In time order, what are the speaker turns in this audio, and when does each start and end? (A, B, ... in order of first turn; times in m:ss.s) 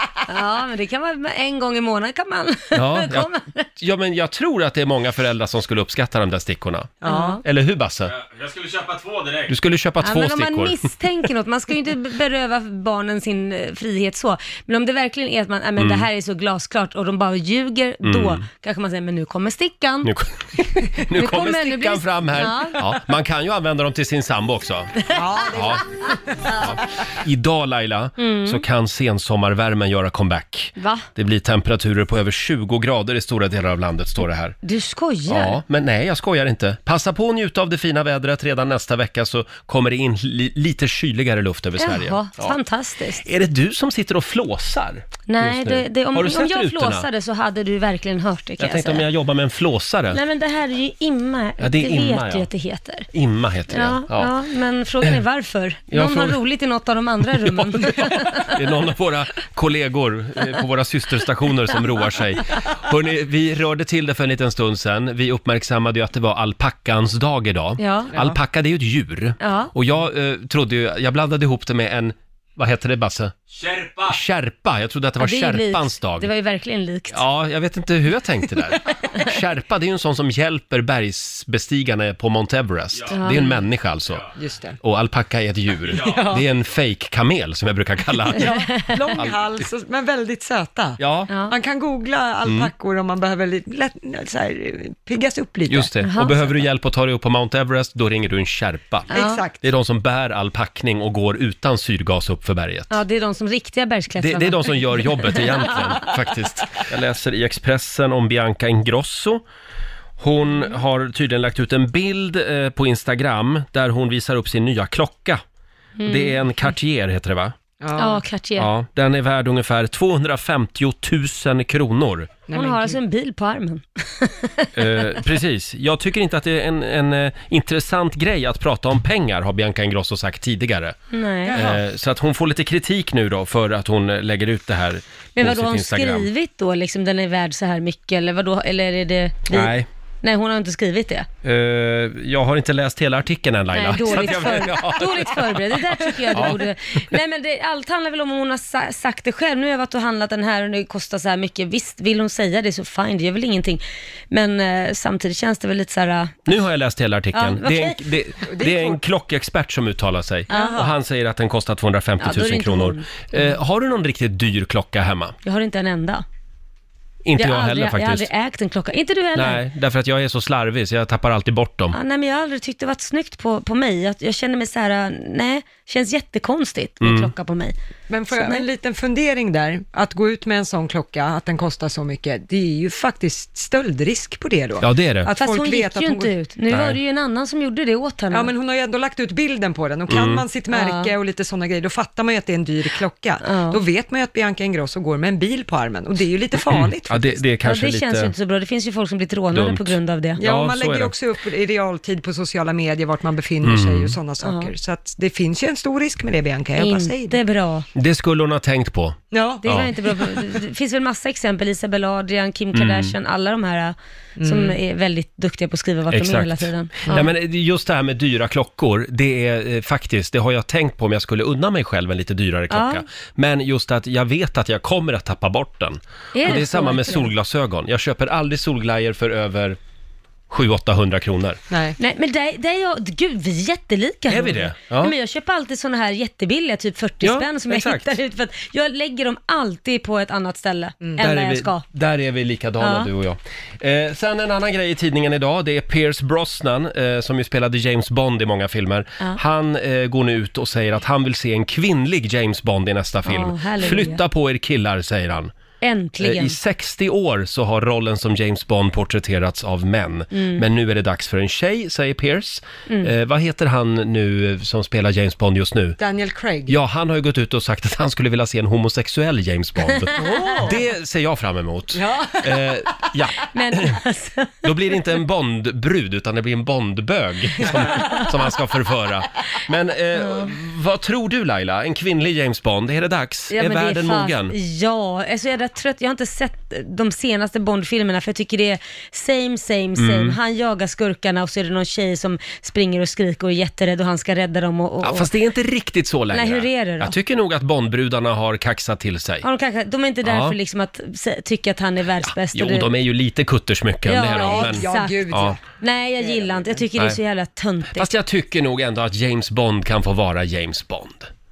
0:00.3-0:03.6 A
0:02.7-0:08.1 B
0:07.0-0:07.4 C
0:07.0-0:07.4 A
0:08.1-0:09.5 D
0:09.5-0:10.8 B
0:10.0-0:20.1 A
0:15.8-0:16.1 B
0:18.0-0:18.4 B
0:20.0-0:25.8 B
0:21.1-0:22.9 A
0:25.1-0:26.6 C
0:26.6-0:34.6 B
0:28.2-0:28.6 A
0:30.8-0:31.0 A
0:34.6-0:35.6 A
0:35.3-0:42.6 B
0:41.8-0:43.2 A
0:43.2-0:47.1 B
0:45.3-0:49.0 A
0:48.6-0:50.2 B
0:50.1-0:53.1 A
0:51.6-0:52.5 B
0:53.1-0:54.3 B
0:53.7-0:58.6 A
0:55.9-0:56.4 B
0:57.4-1:13.3 B
1:07.8-1:08.1 A
1:09.4-1:09.7 A
1:13.5-1:14.1 D
1:14.1-1:16.3 B
1:15.2-1:17.2 A
1:17.1-1:24.3 B
1:23.1-1:23.6 A
1:24.4-1:24.8 C
1:24.8-1:28.5 B
1:25.9-1:26.4 C
1:26.0-1:26.2 D
1:28.3-1:35.9 C
1:28.8-1:29.1 A
1:31.0-1:31.3 B
1:32.4-1:32.7 B
1:35.7-1:43.0 B
1:36.0-1:36.4 A
1:39.1-1:39.4 A
1:39.1-1:39.6 C
1:42.9-1:46.1 A
1:44.2-1:49.4 B
1:50.2-1:55.4 B
1:56.0-1:56.4 A
1:56.0-1:57.5 B
1:57.8-1:58.2 C
1:58.0-1:58.7 A
1:58.6-2:02.3 B
2:02.5-2:03.0 C
2:02.5-2:04.7 A
2:04.7-2:11.0 B
2:11.1-2:11.6 A
2:11.4-2:11.8 C
2:11.5-2:16.3 B
2:15.4-2:21.3 A
2:19.5-2:19.8 B
2:21.4-2:25.7 B
2:23.7-2:36.5 A
2:26.3-2:26.6 B
2:36.5-2:45.4 B
2:37.3-2:38.1 A
2:38.5-2:39.0 C
2:40.5-2:40.8 A
2:40.5-2:40.9 C
2:42.2-2:43.2 A
2:45.4-2:46.2 A
2:47.2-2:48.3 B
2:47.4-2:49.6 A
2:49.3-2:52.0 B
2:51.9-2:57.7 A
2:57.0-2:57.3 B
2:58.1-3:06.3 C
2:58.3-2:58.6 A
3:04.8-3:05.3 B
3:05.3-3:08.5 A
3:06.7-3:07.0 B
3:08.3-3:17.5 C
3:10.1-3:10.4 B
3:10.7-3:11.1 A
3:13.4-3:13.8 A
3:16.7-3:18.3 B
3:17.6-3:20.4 A
3:19.5-3:21.1 B
3:20.4-3:27.4 C
3:23.6-3:24.2 B
3:24.4-3:24.7 A
3:26.8-3:27.9 A
3:27.9-3:29.9 B
3:29.3-3:30.3 C
3:29.6-3:37.3 A
3:32.7-3:33.2 B
3:34.4-3:34.8 C
3:36.1-3:49.8 B
3:42.7-3:43.0 A
3:46.3-3:47.3 A
3:50.5-3:51.6 B
3:51.7-3:52.0 C
3:52.0-4:01.8 A
3:54.3-3:55.1 B
3:57.2-3:58.2 B
4:01.2-4:15.5 B
4:02.8-4:03.1 A
4:13.2-4:14.2 A
4:15.8-4:16.6 A
4:16.2-4:26.0 B
4:20.3-4:20.6 A
4:26.0-4:26.8 C
4:26.7-4:34.0 B
4:30.0-4:30.4 A
4:30.2-4:30.8 C
4:31.9-4:32.7 C
4:33.5-4:34.6 A
4:34.6-4:44.5 B
4:40.2-4:40.5 A
4:43.5-4:55.3 A
4:50.0-4:50.4 B
4:55.0-4:59.4 B
4:56.3-4:57.1 A
4:59.4-5:02.9 A
5:00.2-5:00.6 B
5:02.2-5:05.6 B
5:04.0-5:08.1 A
5:04.2-5:06.8 C
5:07.9-5:11.3 B